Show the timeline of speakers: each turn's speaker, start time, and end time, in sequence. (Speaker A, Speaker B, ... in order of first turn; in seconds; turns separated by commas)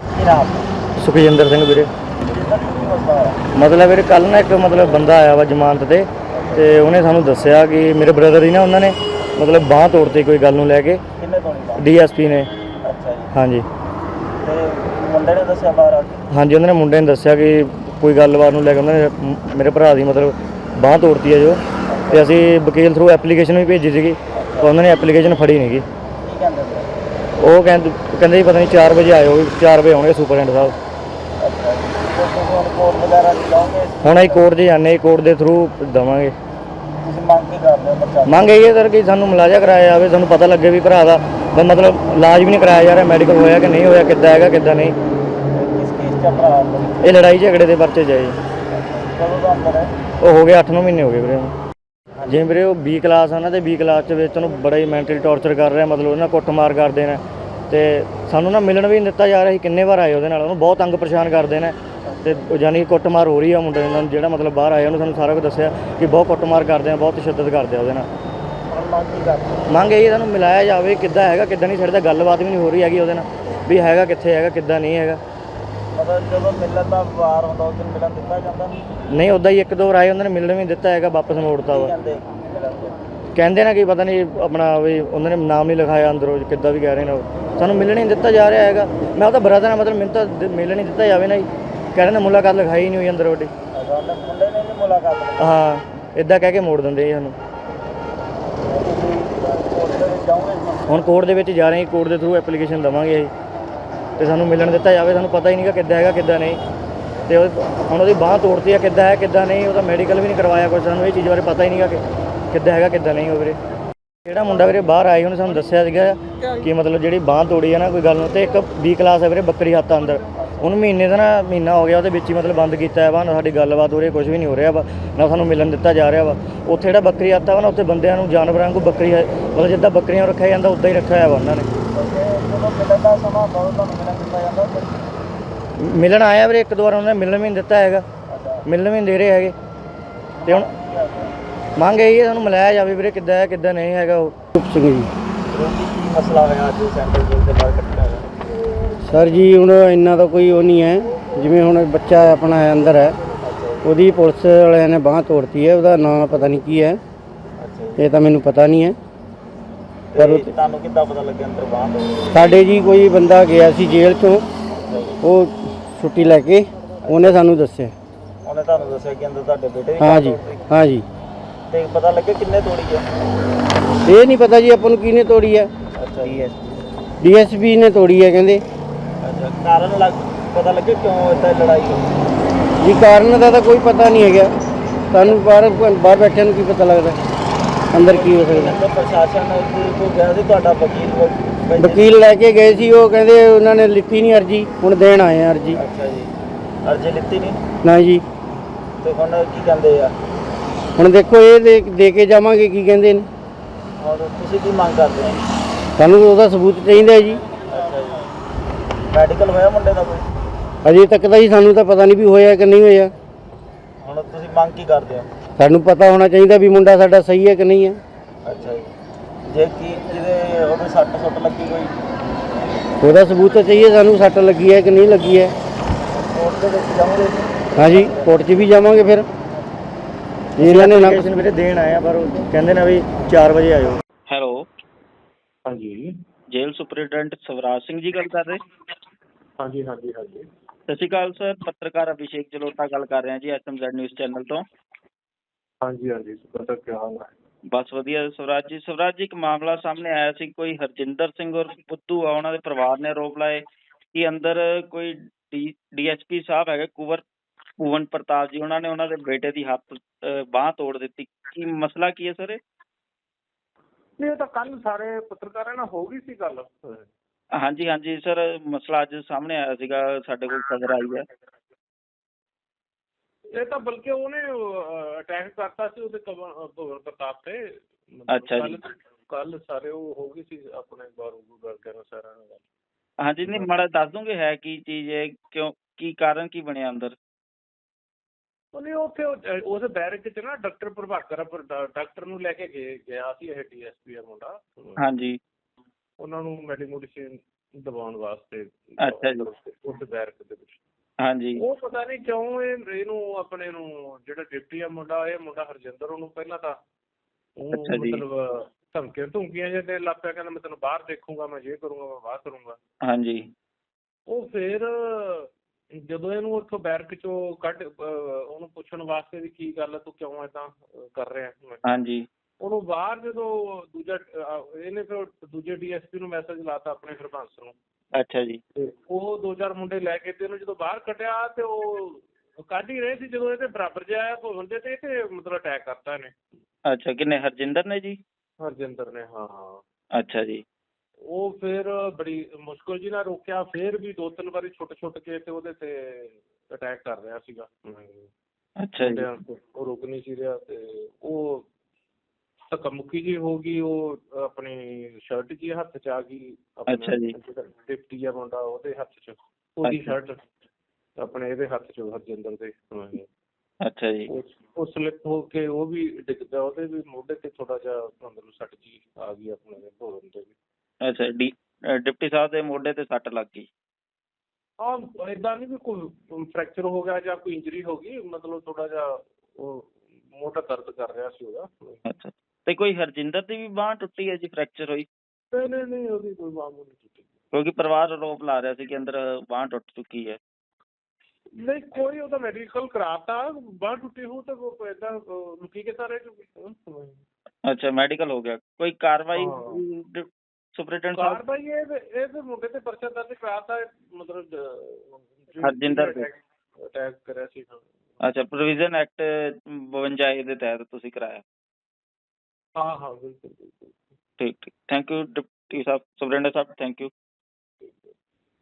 Speaker A: 0.1-0.7, Speaker B: 1.0-1.9, Speaker A: 2.2-3.4, Speaker B: 3.5-11.0, Speaker A: 6.3-6.8, Speaker A: 11.2-11.8, Speaker B: 11.8-12.5, Speaker A: 12.8-13.3, Speaker B: 13.3-13.7, Speaker A: 14.4-16.2, Speaker B: 16.3-21.6, Speaker A: 21.9-22.3, Speaker B: 22.1-25.9, Speaker A: 24.3-24.8, Speaker A: 26.2-26.9, Speaker B: 27.4-30.8, Speaker A: 31.4-34.4, Speaker B: 34.0-36.3, Speaker A: 37.0-38.5, Speaker B: 38.3-45.0, Speaker A: 45.5-47.0, Speaker B: 47.0-48.4, Speaker A: 48.7-49.9, Speaker B: 50.2-51.5, Speaker A: 52.2-52.5, Speaker B: 52.3-68.1, Speaker A: 62.1-62.3, Speaker A: 68.7-69.7, Speaker B: 69.7-75.2, Speaker A: 75.9-78.8, Speaker B: 79.1-81.9, Speaker A: 81.7-83.0, Speaker B: 83.3-93.5, Speaker A: 93.7-95.6, Speaker B: 95.4-97.4, Speaker A: 98.7-101.1, Speaker B: 100.9-103.3, Speaker B: 104.2-106.6, Speaker B: 107.3-113.6, Speaker B: 114.3-131.7, Speaker A: 120.3-120.6, Speaker A: 131.9-135.0, Speaker B: 135.8-138.1, Speaker A: 138.3-138.6, Speaker B: 138.7-139.6, Speaker A: 140.4-141.3, Speaker B: 141.8-144.3, Speaker C: 144.6-145.1, Speaker A: 145.5-148.3, Speaker C: 149.0-153.2, Speaker A: 153.4-153.9, Speaker C: 153.8-157.0, Speaker A: 157.6-158.0, Speaker C: 158.0-159.0, Speaker A: 160.1-162.5, Speaker C: 160.2-160.5, Speaker C: 162.3-164.5, Speaker A: 164.8-165.2, Speaker C: 165.2-167.9, Speaker A: 167.0-167.5, Speaker A: 168.4-170.7, Speaker C: 170.0-171.1, Speaker A: 171.7-173.1, Speaker C: 174.1-175.7, Speaker A: 176.0-176.5, Speaker C: 177.2-178.6, Speaker A: 179.2-182.1, Speaker C: 182.8-184.5, Speaker C: 185.1-187.2, Speaker C: 187.9-188.8, Speaker A: 188.0-192.1, Speaker C: 191.8-195.8, Speaker A: 195.8-196.3, Speaker A: 196.8-197.6, Speaker C: 197.8-198.2, Speaker A: 199.0-200.2, Speaker C: 201.0-203.3, Speaker A: 204.0-205.4, Speaker C: 206.0-207.4, Speaker A: 207.6-208.3, Speaker A: 209.1-210.3, Speaker C: 210.8-213.1, Speaker A: 214.0-215.3, Speaker C: 215.6-218.0, Speaker A: 218.4-218.9, Speaker A: 219.5-221.9, Speaker C: 223.0-225.5, Speaker A: 226.1-228.5, Speaker C: 227.8-229.3, Speaker C: 230.6-231.2, Speaker B: 230.6-234.0, Speaker D: 234.3-234.7, Speaker E: 235.7-236.2, Speaker D: 236.5-238.6, Speaker E: 239.6-240.5, Speaker D: 240.9-244.6, Speaker E: 245.8-247.3, Speaker D: 247.7-257.2, Speaker D: 257.8-262.6, Speaker E: 264.2-267.1, Speaker D: 267.6-271.2, Speaker E: 273.5-282.6, Speaker D: 278.3-278.8, Speaker D: 283.2-287.2, Speaker E: 288.7-295.0, Speaker D: 295.0-295.4, Speaker E: 296.2-300.8, Speaker D: 299.0-299.4, Speaker D: 301.2-301.6, Speaker E: 301.6-306.8, Speaker E: 307.6-312.8, Speaker D: 307.8-308.2, Speaker D: 313.1-313.5, Speaker E: 314.3-321.8, Speaker D: 321.9-322.2, Speaker E: 322.6-327.8, Speaker D: 328.2-328.6, Speaker E: 328.8-336.4, Speaker D: 336.9-338.2, Speaker E: 338.6-339.8, Speaker D: 340.1-340.6, Speaker E: 341.3-348.3, Speaker D: 348.8-349.3, Speaker E: 349.0-351.7, Speaker E: 352.7-360.4, Speaker D: 356.9-357.3, Speaker D: 359.8-360.1, Speaker E: 361.2-363.3, Speaker D: 363.8-364.3, Speaker E: 364.3-370.6, Speaker D: 371.0-373.7, Speaker E: 374.8-382.0, Speaker D: 382.1-385.1, Speaker E: 385.5-387.3, Speaker D: 387.5-390.4, Speaker E: 391.6-397.2, Speaker D: 397.7-401.4, Speaker E: 399.4-399.8, Speaker E: 401.1-407.9, Speaker D: 405.6-406.2, Speaker D: 408.2-411.4, Speaker E: 412.8-414.0, Speaker D: 414.4-417.1